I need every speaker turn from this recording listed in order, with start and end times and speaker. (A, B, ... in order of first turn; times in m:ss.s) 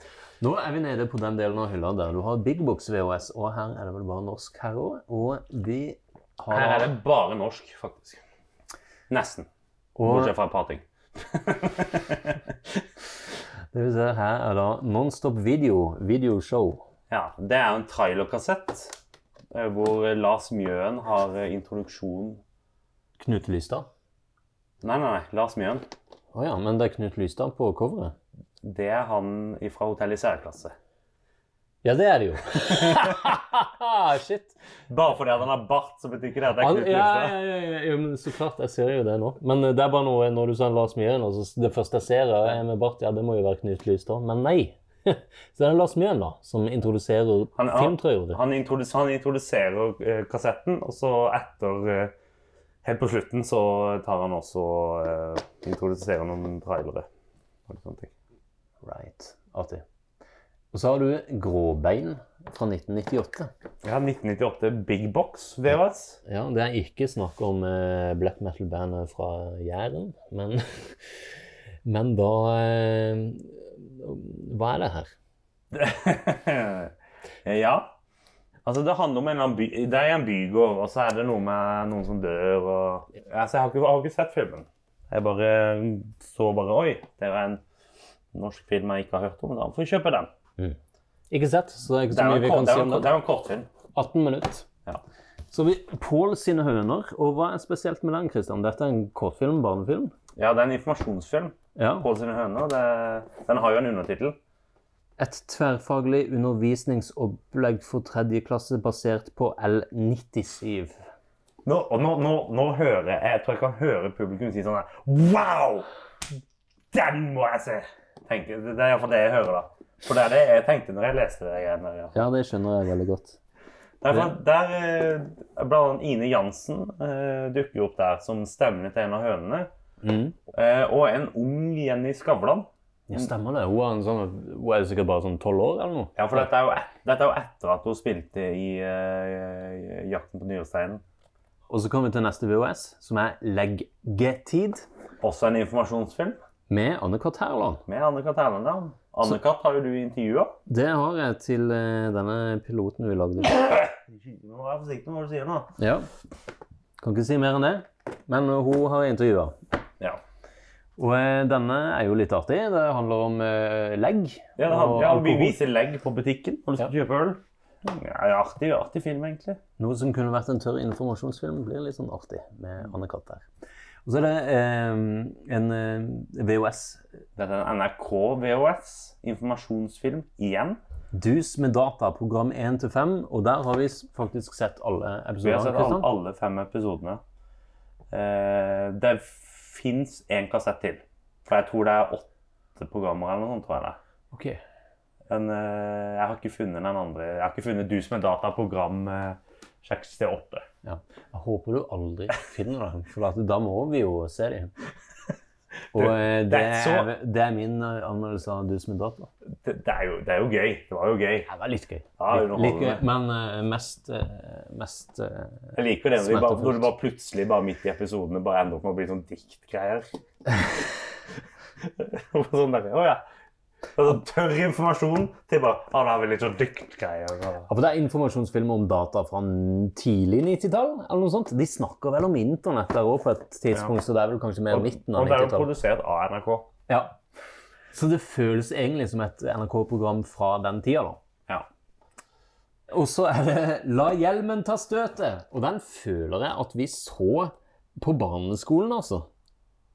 0:00.4-0:06.9 A
0:06.5-0:08.2 B
0:09.1-0:09.5 B
0:10.0-0:10.3 A
0:10.0-0:12.4 B
0:13.7-0:16.8 A
0:17.1-0:19.0 B
0:19.5-0:22.4 B
0:23.2-0:23.9 A
0:24.8-0:25.8 B
0:26.3-0:28.1 A
0:28.6-0:30.7 B
0:31.8-0:34.5 A
0:34.9-0:37.4 B
0:36.6-0:48.4 A
0:47.6-0:52.1 B
0:52.8-0:57.1 B
0:57.7-0:58.1 B
0:58.8-0:59.8 A
1:00.7-1:03.5 A
1:03.8-1:06.2 B
1:06.2-1:11.3 A
1:11.8-1:15.1 A
1:15.7-1:16.9 B
1:17.4-1:17.9 B
1:18.6-1:27.6 B
1:28.3-1:30.3 B
1:31.3-1:33.1 A
1:32.1-1:33.7 B
1:33.9-1:34.7 A
1:35.5-1:40.1 A
1:40.4-1:44.4 B
1:41.8-1:42.0 A
1:45.2-1:51.0 A
1:51.6-1:55.8 B
1:56.9-2:02.2 B
2:02.1-2:03.4 A
2:04.0-2:09.7 B
2:10.0-2:10.3 A
2:10.5-2:13.3 B
2:13.1-2:16.5 A
2:16.2-2:21.0 B
2:21.7-2:24.8 A
2:25.2-2:26.4 B
2:26.7-2:27.8 A
2:27.9-2:30.6 B
2:30.7-2:33.6 A
2:33.7-2:35.8 B
2:35.8-2:36.1 A
2:37.0-2:39.6 A
2:41.0-2:45.6 A
2:44.6-2:49.6 B
2:49.8-2:53.4 A
2:54.0-2:57.0 A
2:57.4-3:00.8 B
3:01.1-3:06.1 A
3:05.4-3:07.2 B
3:08.1-3:14.0 B
3:14.3-3:14.6 A
3:15.3-3:20.7 B
3:20.8-3:24.7 A
3:25.9-3:29.3 A
3:25.9-3:27.1 B
3:29.6-3:31.5 B
3:31.5-3:36.9 A
3:32.2-3:33.0 B
3:35.7-3:40.1 B
3:41.8-3:43.2 B
3:44.0-3:47.7 B
3:47.7-3:55.7 A
3:54.7-3:56.7 B
3:56.9-3:57.2 A
3:57.9-4:01.2 A
4:02.9-4:09.3 A